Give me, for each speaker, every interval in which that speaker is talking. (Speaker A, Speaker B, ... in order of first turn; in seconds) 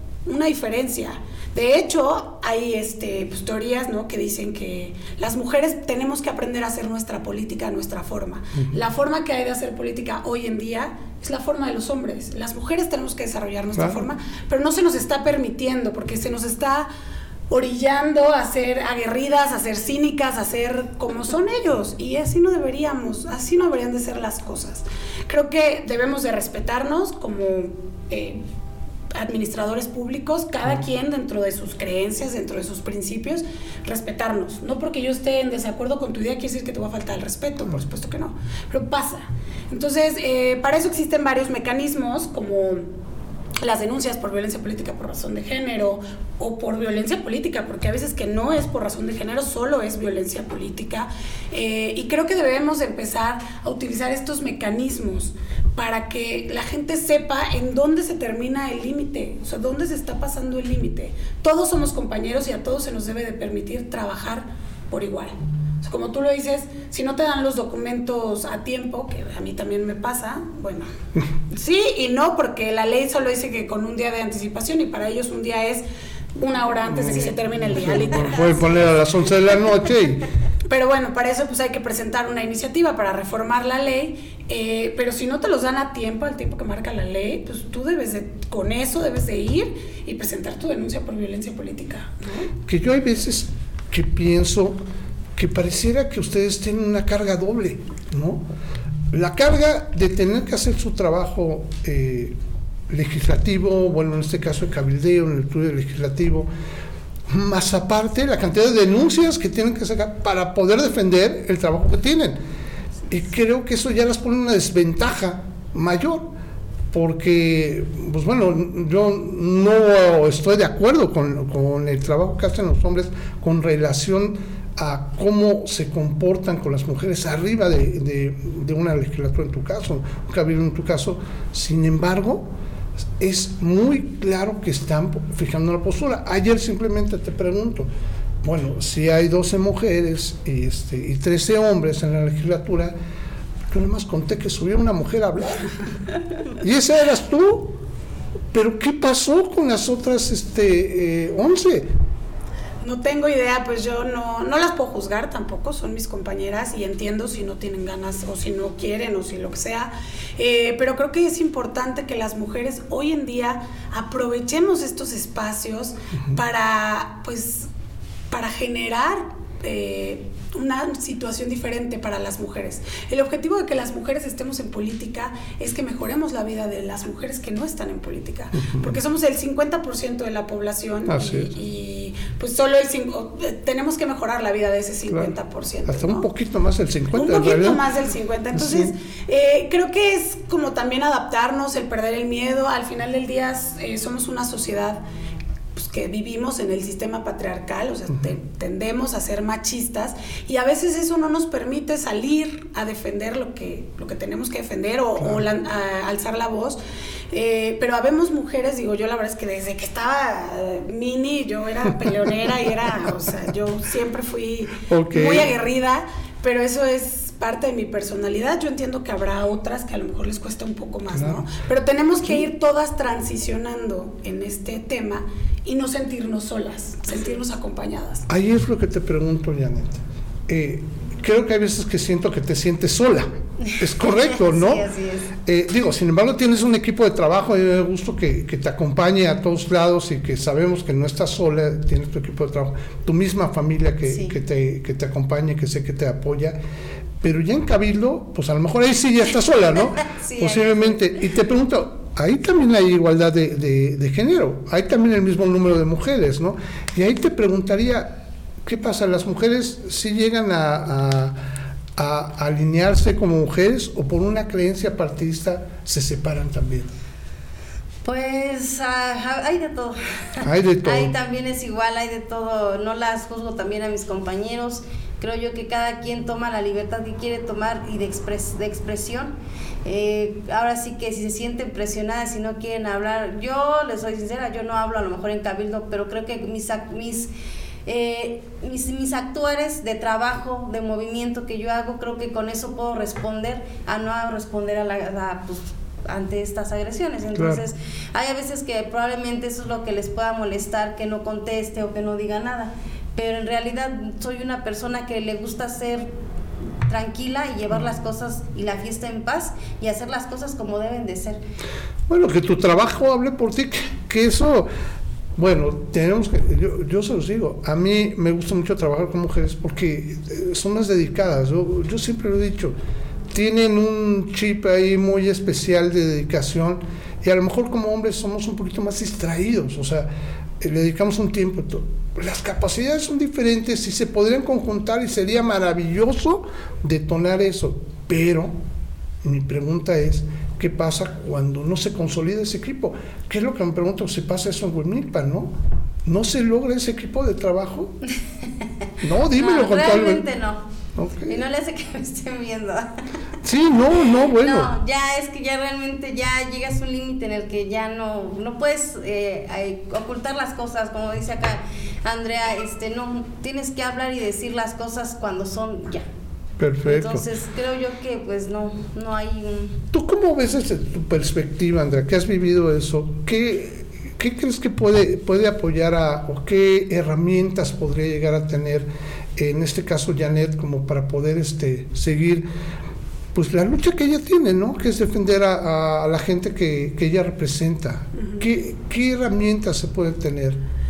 Speaker A: 0.2-16.9, 17.5-28.4, 29.1-42.8, 43.6-70.9, 71.5-75.8, 76.3-78.7, 80.7-92.5, 152.8-167.7, 168.3-186.2, 187.1-195.0, 195.7-206.8, 207.3-228.2, 388.2-388.4
Speaker B: 13.8-14.0, 76.9-80.2, 92.7-94.8, 95.3-98.5, 99.1-102.3, 102.9-106.5, 107.3-112.4, 113.1-116.3, 116.9-132.5, 133.2-137.9, 138.4-142.9, 143.7-145.7, 146.6-147.8, 148.5-151.9, 181.1-181.5, 185.9-187.8, 188.5-188.9, 214.9-215.5, 221.1-221.4, 228.3-234.8, 235.4-246.6, 247.2-261.4, 261.9-266.9, 270.4-271.1, 297.4-297.6, 312.1-314.7, 315.4-322.7, 323.3-330.1, 330.6-338.5, 339.2-345.5, 346.0-347.9, 349.0-350.2, 350.9-351.4, 353.4-354.7, 366.6-367.2, 369.9-382.5, 383.3-390.6
Speaker C: 233.7-235.3, 244.1-244.3, 250.1-250.9, 268.0-279.3, 279.8-287.3, 287.9-306.1, 306.9-311.4, 349.3-350.6, 351.3-352.9, 354.0-366.0, 366.8-369.8